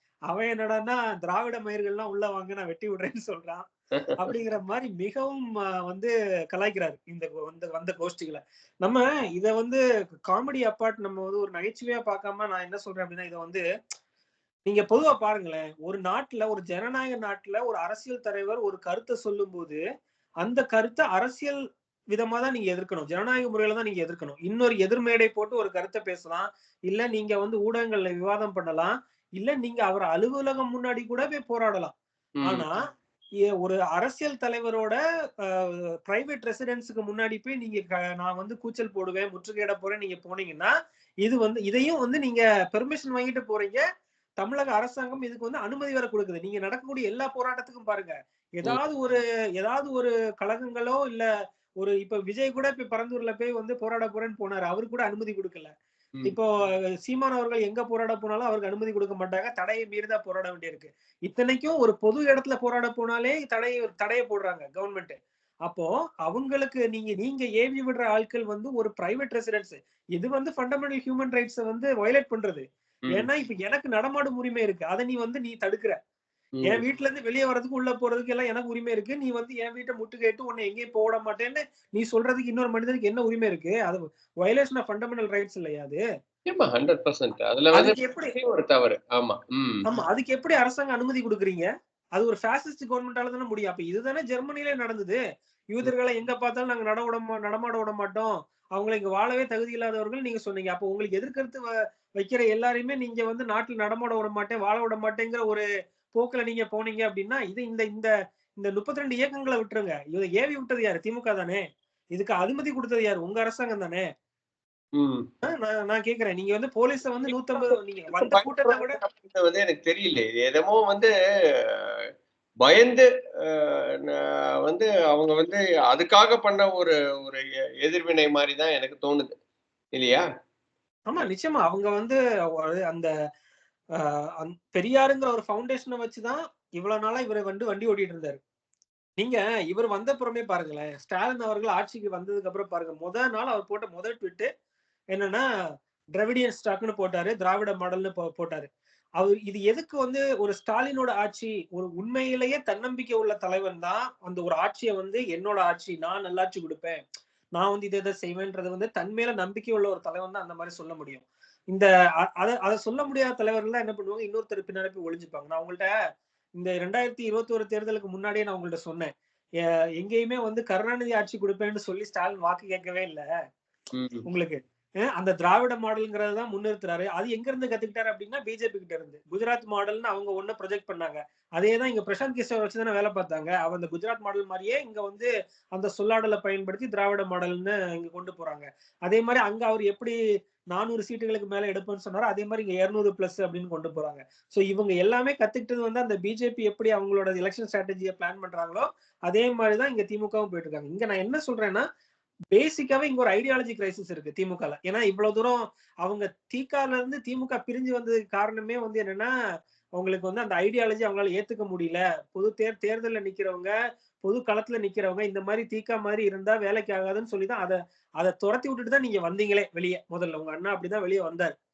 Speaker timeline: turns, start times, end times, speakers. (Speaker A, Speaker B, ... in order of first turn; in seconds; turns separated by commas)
Speaker A: 0.3-3.7, Speaker A: 4.2-13.6, Speaker A: 14.7-19.8, Speaker A: 20.4-21.6, Speaker A: 22.1-31.9, Speaker A: 32.4-32.8, Speaker A: 33.6-35.0, Speaker A: 35.5-40.7, Speaker A: 41.2-43.8, Speaker A: 44.4-51.2, Speaker A: 51.8-55.7, Speaker A: 56.2-76.0, Speaker A: 76.6-86.0, Speaker B: 86.5-89.8, Speaker A: 87.7-88.4, Speaker A: 89.8-95.2, Speaker A: 95.7-114.0, Speaker B: 115.0-115.2, Speaker A: 115.4-119.0, Speaker B: 117.3-117.6, Speaker B: 118.2-121.1, Speaker B: 121.7-122.0, Speaker B: 122.6-129.3, Speaker B: 129.9-130.2, Speaker A: 131.1-133.1, Speaker A: 134.0-138.4, Speaker A: 139.2-144.5, Speaker A: 145.1-145.4, Speaker A: 146.1-157.0, Speaker A: 157.6-161.9, Speaker A: 162.4-165.9, Speaker A: 166.6-169.1, Speaker A: 170.0-173.2, Speaker B: 174.0-174.2, Speaker A: 174.3-174.6, Speaker A: 175.1-190.2, Speaker A: 190.7-201.8, Speaker A: 202.5-209.3, Speaker A: 210.0-213.7, Speaker A: 214.2-221.5